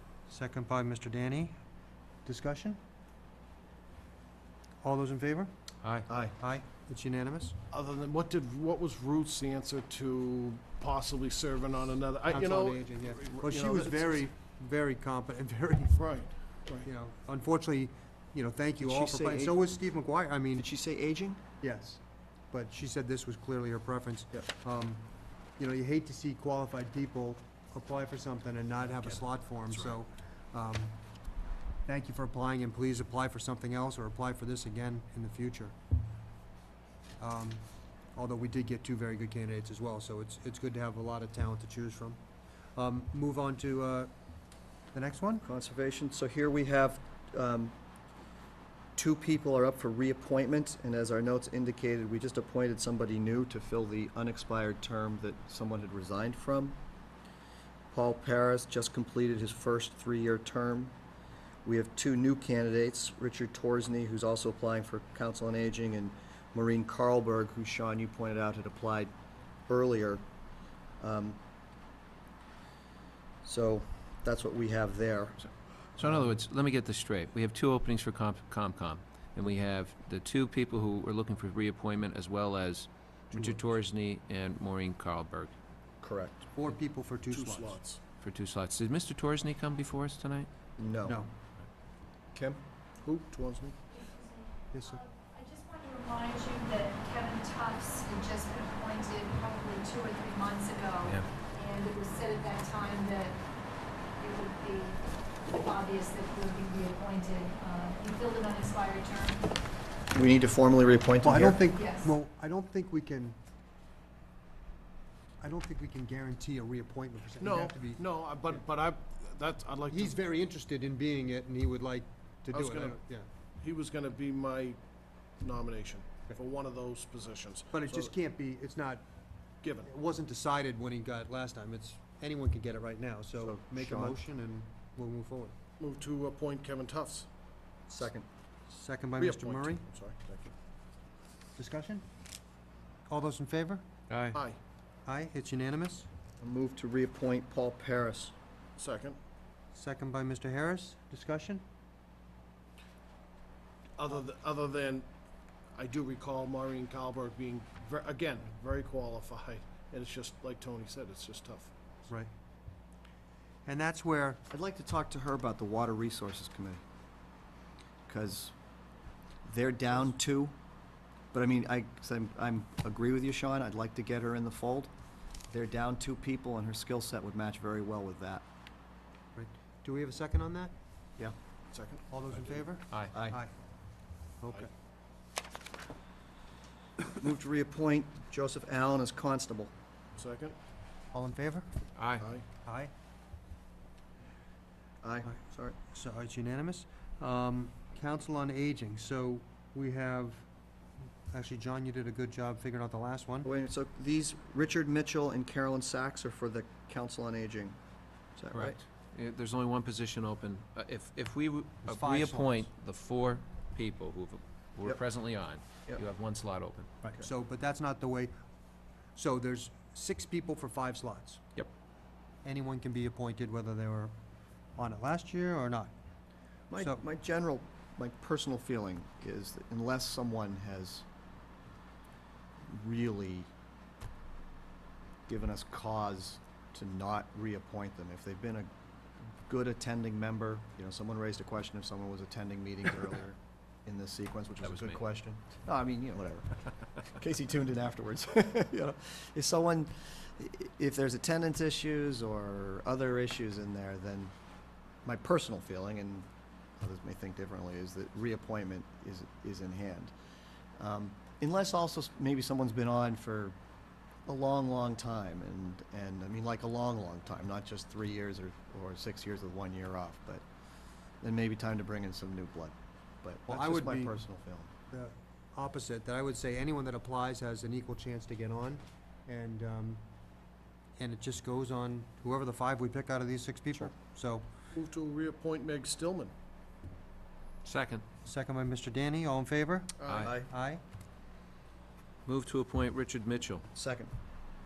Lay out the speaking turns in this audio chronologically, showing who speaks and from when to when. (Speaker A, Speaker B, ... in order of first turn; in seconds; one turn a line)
Speaker A: 0.3-1.6
Speaker A: 2.3-2.8
Speaker A: 4.8-5.5
Speaker B: 5.8-6.1
Speaker C: 6.1-6.4
Speaker A: 6.4-7.5
Speaker D: 7.7-14.2
Speaker A: 12.3-16.0
Speaker D: 15.9-16.9
Speaker A: 16.8-20.7
Speaker C: 18.8-19.6
Speaker C: 20.6-21.4
Speaker A: 21.6-25.0
Speaker A: 25.6-30.9
Speaker A: 31.9-35.8
Speaker A: 37.2-37.6
Speaker A: 38.1-42.2
Speaker A: 42.8-44.1
Speaker A: 44.9-45.5
Speaker C: 45.4-47.7
Speaker C: 49.0-56.8
Speaker C: 57.9-61.0
Speaker C: 61.6-69.1
Speaker C: 69.7-70.2
Speaker C: 71.0-71.4
Speaker C: 73.5-75.4
Speaker B: 76.0-85.5
Speaker C: 86.0-86.5
Speaker A: 86.5-87.8
Speaker D: 87.3-88.0
Speaker B: 88.2-90.5
Speaker C: 90.8-91.2
Speaker A: 91.0-91.3
Speaker C: 92.3-92.6
Speaker D: 93.0-93.8
Speaker E: 93.9-103.4
Speaker A: 94.7-95.0
Speaker E: 104.2-109.5
Speaker C: 110.1-111.6
Speaker A: 111.2-113.4
Speaker E: 111.7-112.1
Speaker A: 115.4-118.6
Speaker D: 117.4-120.2
Speaker A: 119.9-123.3
Speaker D: 122.5-123.0
Speaker D: 123.6-124.8
Speaker D: 125.4-128.1
Speaker A: 127.7-129.0
Speaker D: 129.6-129.9
Speaker A: 129.8-135.6
Speaker C: 133.4-134.2
Speaker D: 135.8-137.3
Speaker C: 137.9-138.3
Speaker A: 138.7-139.8
Speaker D: 139.2-140.5
Speaker A: 141.6-142.1
Speaker A: 143.1-143.8
Speaker B: 144.1-144.4
Speaker D: 144.3-144.6
Speaker A: 145.1-146.1
Speaker C: 146.4-148.3
Speaker D: 148.8-149.2
Speaker A: 149.7-151.6
Speaker D: 154.0-155.1
Speaker D: 155.7-161.7
Speaker A: 163.7-164.4
Speaker C: 164.5-166.8
Speaker C: 168.1-168.5
Speaker C: 169.4-170.5
Speaker C: 171.3-174.9
Speaker C: 175.5-178.4
Speaker A: 179.3-180.7
Speaker D: 181.7-182.4
Speaker A: 182.1-183.5
Speaker B: 182.9-183.2
Speaker C: 183.1-183.4
Speaker A: 184.4-184.7
Speaker C: 187.0-189.7
Speaker D: 190.2-190.6
Speaker A: 191.1-191.7
Speaker B: 192.0-192.3
Speaker D: 192.2-192.4
Speaker A: 192.6-192.9
Speaker C: 195.0-195.8
Speaker A: 195.3-200.5
Speaker A: 201.3-203.5
Speaker C: 203.4-207.8
Speaker C: 208.4-208.8
Speaker B: 208.5-216.9
Speaker A: 211.8-212.7
Speaker A: 217.0-218.3
Speaker A: 219.2-221.4
Speaker A: 222.4-224.1
Speaker A: 224.8-225.9
Speaker C: 226.7-231.1
Speaker C: 232.7-233.5
Speaker C: 235.3-238.7
Speaker C: 239.5-254.3
Speaker B: 244.6-245.0
Speaker C: 255.1-256.3
Speaker C: 256.8-260.1
Speaker C: 260.8-263.6
Speaker C: 264.3-270.4
Speaker C: 271.2-274.7
Speaker A: 273.5-274.2
Speaker A: 274.9-280.0
Speaker A: 281.0-284.5
Speaker D: 284.7-286.3
Speaker B: 287.6-288.0
Speaker A: 288.2-290.8
Speaker D: 290.0-290.3
Speaker B: 290.1-290.4
Speaker C: 290.2-290.5
Speaker B: 292.3-293.6
Speaker C: 293.8-294.1